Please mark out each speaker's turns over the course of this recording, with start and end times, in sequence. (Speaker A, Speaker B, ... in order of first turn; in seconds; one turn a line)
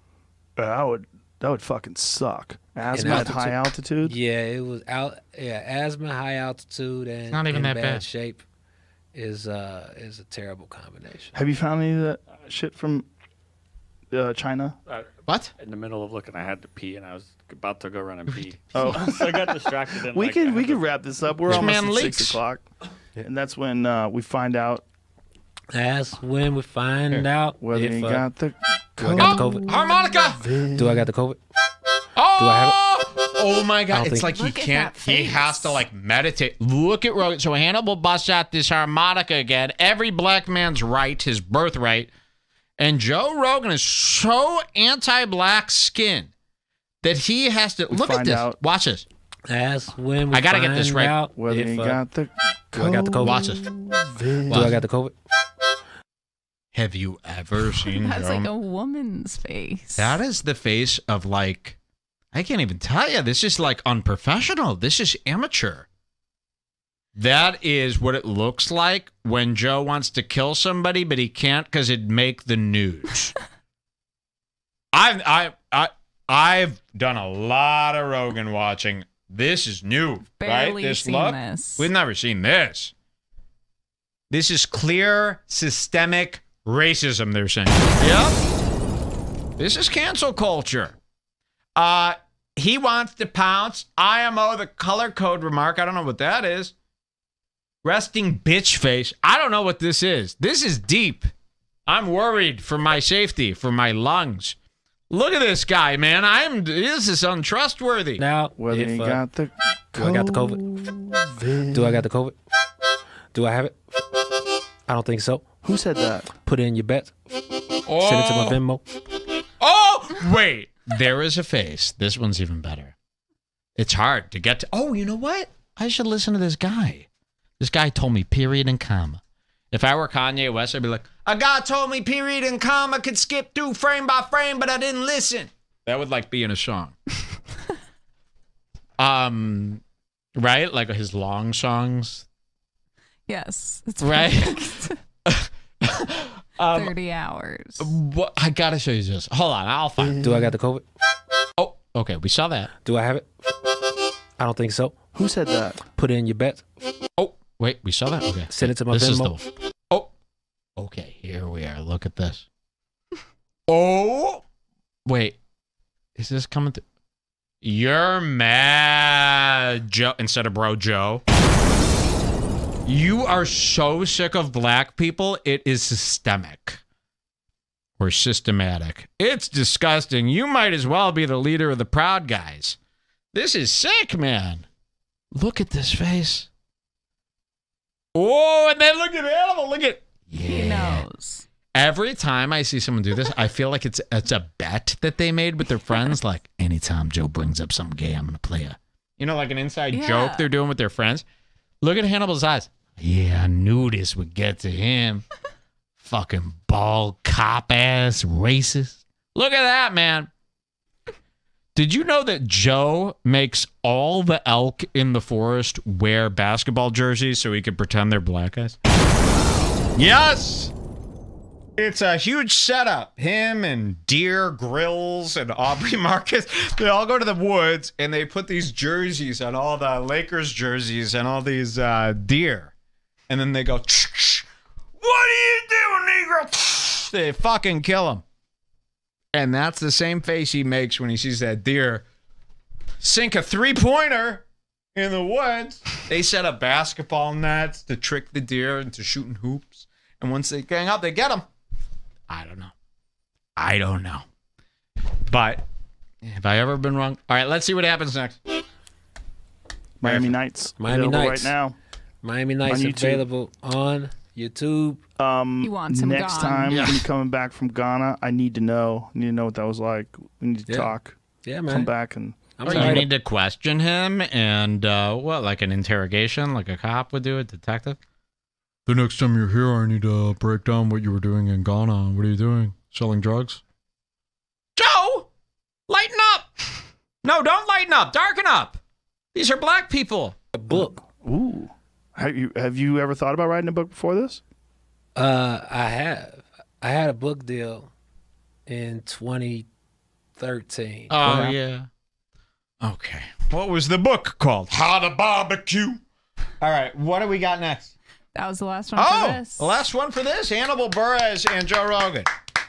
Speaker A: 0.6-4.2
Speaker B: 2.9-8.4
Speaker C: 3.0-3.3
Speaker C: 7.3-8.1
Speaker B: 9.1-11.3
Speaker A: 11.3-13.1
Speaker A: 14.1-14.8
Speaker D: 14.9-20.9
Speaker C: 15.3-15.5
Speaker A: 18.7-19.5
Speaker A: 20.1-22.6
Speaker C: 21.5-22.4
Speaker A: 23.2-24.8
Speaker B: 25.7-28.3
Speaker A: 27.6-31.1
Speaker B: 29.0-29.8
Speaker C: 29.2-30.5
Speaker B: 30.8-31.4
Speaker C: 32.1-42.1
Speaker B: 32.4-32.8
Speaker B: 33.9-34.3
Speaker E: 34.3-35.8
Speaker C: 42.8-46.3
Speaker C: 47.0-49.1
Speaker A: 47.9-48.6
Speaker B: 49.5-52.0
Speaker C: 50.3-51.2
Speaker A: 51.4-54.8
Speaker B: 52.8-53.6
Speaker C: 53.2-53.6
Speaker B: 54.5-55.1
Speaker C: 54.5-54.8
Speaker C: 56.7-58.5
Speaker E: 58.0-60.2
Speaker C: 60.0-61.8
Speaker C: 62.3-65.9
Speaker C: 67.2-73.3
Speaker C: 74.9-82.9
Speaker E: 80.3-81.9
Speaker C: 84.3-88.4
Speaker C: 89.6-91.0
Speaker C: 91.8-96.7
Speaker C: 97.8-101.3
Speaker C: 101.9-104.6
Speaker C: 105.1-108.2
Speaker B: 108.2-109.2
Speaker A: 108.6-112.0
Speaker B: 110.0-110.7
Speaker B: 111.7-112.4
Speaker B: 113.3-114.3
Speaker B: 114.9-115.5
Speaker A: 115.6-116.3
Speaker B: 116.3-118.8
Speaker C: 117.9-118.6
Speaker C: 119.6-123.0
Speaker C: 123.8-127.1
Speaker C: 127.6-129.2
Speaker C: 129.7-137.0
Speaker C: 139.0-139.8
Speaker C: 140.4-142.3
Speaker E: 143.3-145.0
Speaker C: 144.0-146.9
Speaker E: 146.7-147.9
Speaker C: 147.8-150.2
Speaker A: 150.0-150.5
Speaker B: 150.2-150.8
Speaker C: 151.6-152.7
Speaker B: 152.8-153.8
Speaker B: 154.4-155.1
Speaker A: 155.2-155.8
Speaker B: 155.9-156.7
Speaker C: 157.2-160.1
Speaker B: 158.5-159.3
Speaker C: 160.8-162.5
Speaker C: 163.7-164.4
Speaker C: 165.1-165.4
Speaker C: 166.2-166.8
Speaker C: 167.6-171.2
Speaker C: 172.8-176.8
Speaker C: 178.0-182.8
Speaker C: 183.3-184.7
Speaker C: 185.3-186.5
Speaker C: 188.2-191.1
Speaker E: 190.4-191.5
Speaker C: 191.7-201.2
Speaker E: 199.9-200.5
Speaker C: 201.8-205.2
Speaker C: 206.0-210.3
Speaker C: 211.8-218.8
Speaker C: 219.9-220.7
Speaker C: 221.8-232.7
Speaker C: 233.3-234.5
Speaker C: 235.0-238.2
Speaker C: 239.3-242.1
Speaker C: 243.0-251.5
Speaker C: 252.3-252.7
Speaker C: 253.6-254.3
Speaker C: 255.3-255.7
Speaker C: 256.2-258.6
Speaker A: 260.0-261.8
Speaker C: 260.0-260.4
Speaker B: 260.8-261.6
Speaker B: 262.2-265.0
Speaker A: 262.7-263.2
Speaker A: 265.2-271.2
Speaker E: 265.6-266.8
Speaker C: 266.7-267.1
Speaker B: 271.4-271.9
Speaker A: 271.7-273.1
Speaker B: 272.6-273.1
Speaker C: 272.7-278.0
Speaker C: 278.9-283.6
Speaker C: 284.8-285.3
Speaker C: 285.9-286.5
Speaker C: 287.2-288.8
Speaker C: 289.3-290.4
Speaker B: 290.5-291.0
Speaker A: 290.7-294.4
Speaker B: 295.2-297.9
Speaker B: 298.7-299.7
Speaker B: 300.4-301.5
Speaker C: 301.1-301.9
Speaker A: 301.2-301.5
Speaker C: 302.8-306.0
Speaker C: 306.6-307.9
Speaker E: 308.4-309.8
Speaker C: 309.0-312.3